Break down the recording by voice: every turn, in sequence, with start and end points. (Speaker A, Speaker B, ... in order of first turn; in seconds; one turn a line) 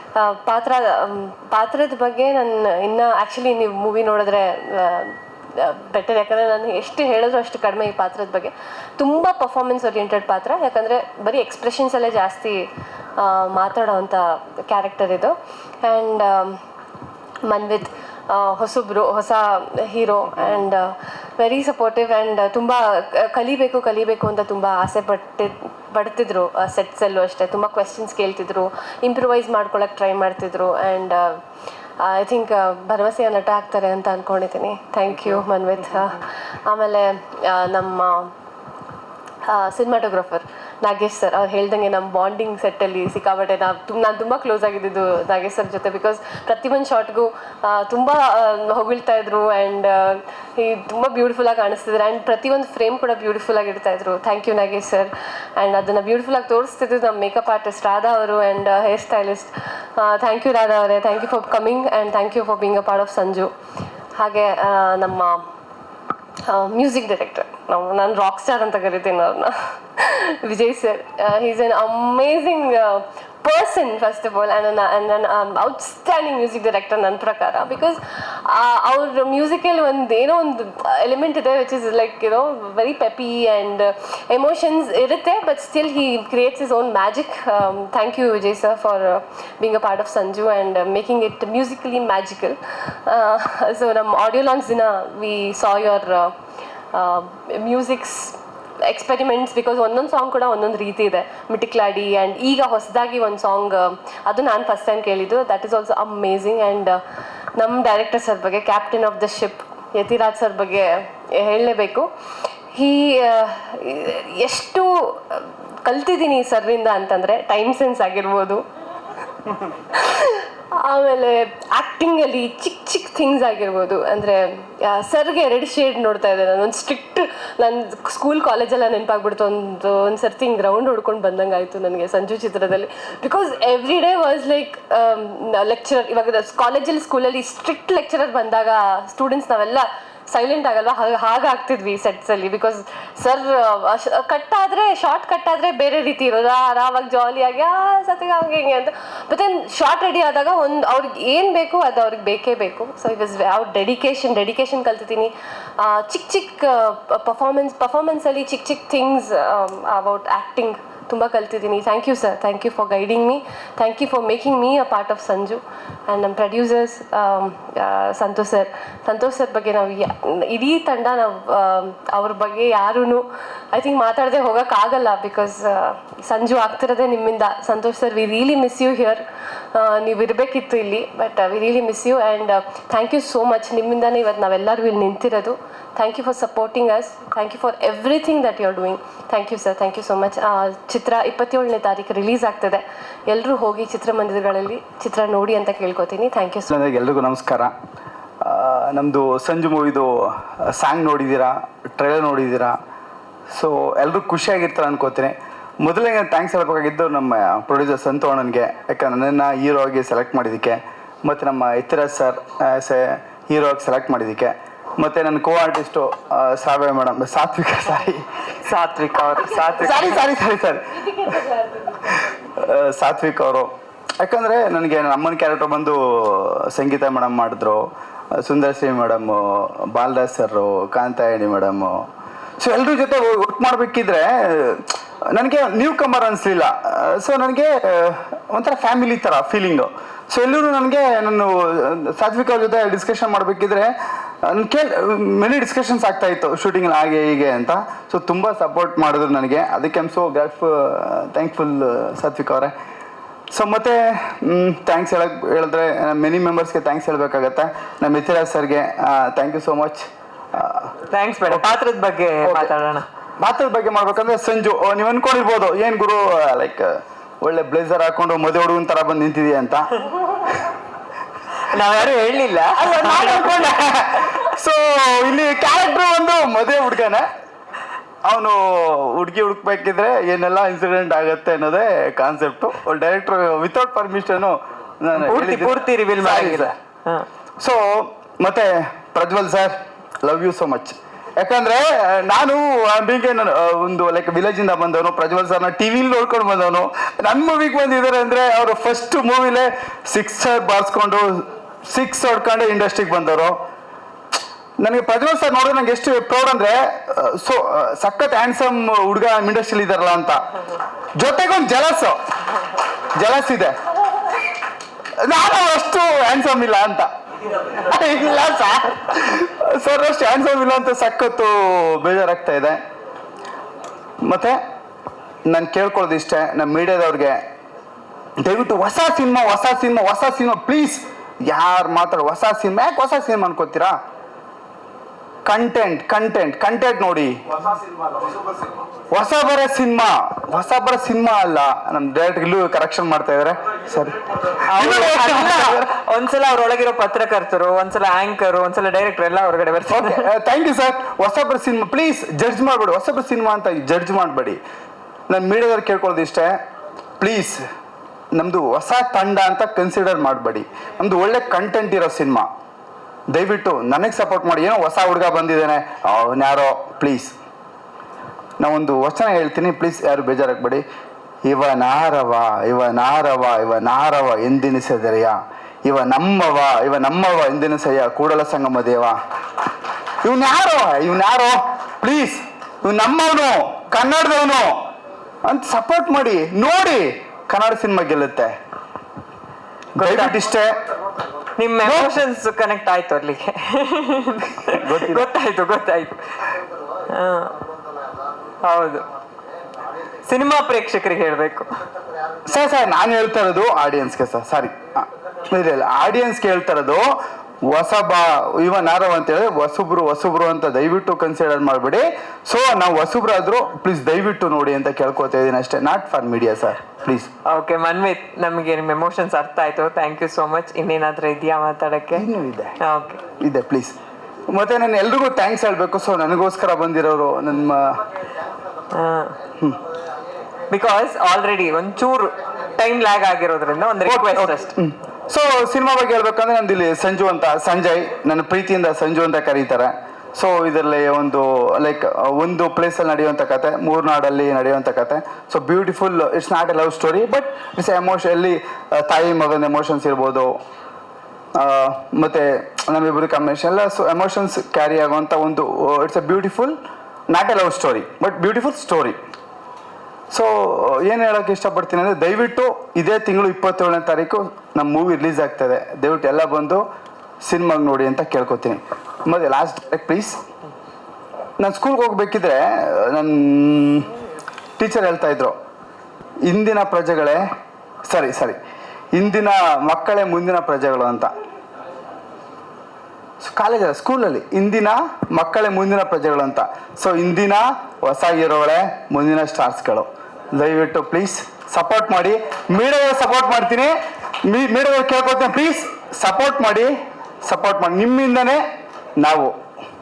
Speaker A: 0.1-16.6
Speaker A: 17.4-31.4
Speaker A: 32.0-38.3
Speaker A: 39.5-63.5
Speaker A: 64.2-65.5
Speaker A: 66.5-96.3
Speaker A: 96.9-107.0
Speaker A: 107.6-112.1
Speaker A: 112.7-118.6
Speaker A: 119.9-196.7
Speaker B: 196.7-197.7
Speaker B: 198.4-202.8
Speaker B: 203.5-218.3
Speaker C: 218.7-220.2
Speaker B: 219.8-221.4
Speaker B: 222.1-232.1
Speaker B: 232.6-243.9
Speaker B: 244.4-252.7
Speaker B: 253.5-260.9
Speaker C: 261.1-263.1
Speaker B: 262.4-262.7
Speaker B: 263.4-269.9
Speaker C: 271.7-273.7
Speaker B: 272.8-277.3
Speaker B: 278.2-286.7
Speaker C: 285.2-287.3
Speaker B: 287.6-303.6
Speaker B: 304.8-310.4
Speaker B: 311.2-312.2
Speaker B: 313.2-313.8
Speaker B: 315.2-317.1
Speaker B: 317.6-322.8
Speaker B: 324.2-324.6
Speaker B: 325.5-327.4
Speaker B: 328.4-334.0
Speaker B: 335.4-337.4
Speaker B: 339.1-345.9
Speaker C: 344.7-350.3
Speaker B: 349.9-354.6
Speaker B: 355.3-356.6
Speaker B: 357.2-357.6
Speaker B: 358.3-362.5
Speaker B: 363.3-367.4
Speaker B: 368.6-370.8
Speaker B: 371.4-379.2
Speaker B: 380.2-384.9
Speaker B: 385.5-388.6
Speaker C: 390.0-390.4
Speaker B: 390.0-390.8
Speaker C: 391.6-396.2
Speaker B: 391.8-392.2
Speaker B: 394.7-395.3
Speaker C: 397.1-397.6
Speaker C: 398.7-399.1
Speaker C: 400.3-401.7
Speaker B: 402.5-407.1
Speaker B: 407.6-417.3
Speaker C: 417.5-422.3
Speaker B: 422.1-422.8
Speaker C: 422.8-423.2
Speaker B: 423.4-424.0
Speaker B: 424.5-428.1
Speaker C: 428.9-429.4
Speaker C: 430.7-434.7
Speaker B: 434.1-450.6
Speaker B: 451.6-456.8
Speaker B: 457.3-459.2
Speaker B: 460.3-466.9
Speaker B: 467.4-470.4
Speaker B: 471.6-474.1
Speaker B: 474.8-475.6
Speaker B: 476.4-477.5
Speaker B: 478.1-478.6
Speaker B: 479.1-481.3
Speaker B: 483.4-498.6
Speaker B: 499.2-499.6